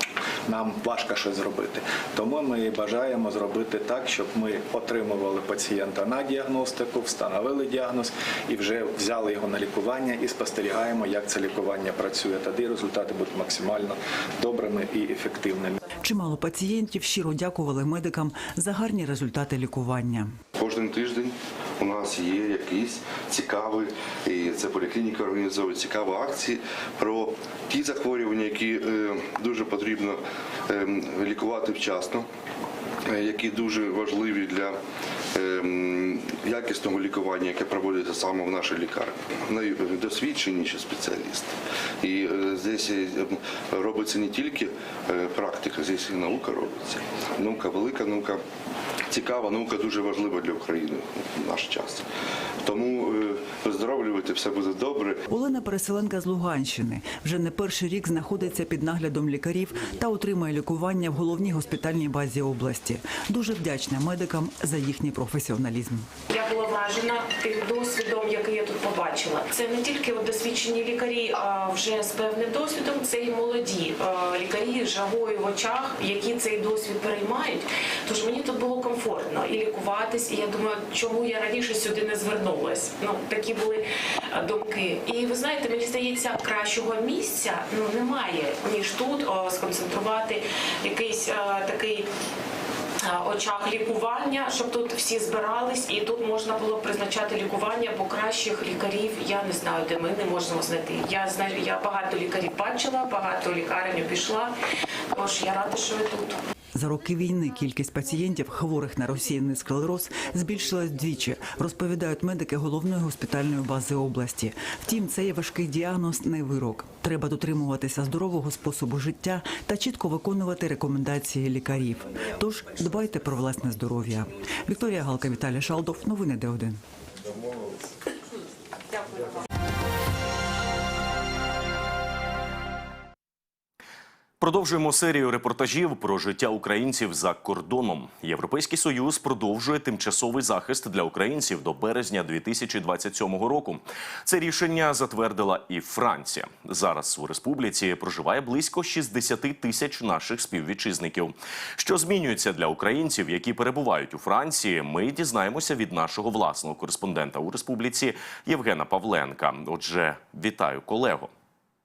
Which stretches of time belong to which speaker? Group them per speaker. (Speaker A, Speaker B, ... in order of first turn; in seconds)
Speaker A: 0.5-15.8
Speaker B: 16.0-20.3, 55.3-66.1, 106.8-126.8
Speaker C: 20.6-32.3, 33.1-34.8, 35.3-48.4, 49.1-52.0, 52.6-55.2
Speaker D: 66.3-92.1, 93.0-104.5, 105.1-106.4
Speaker E: 134.4-161.3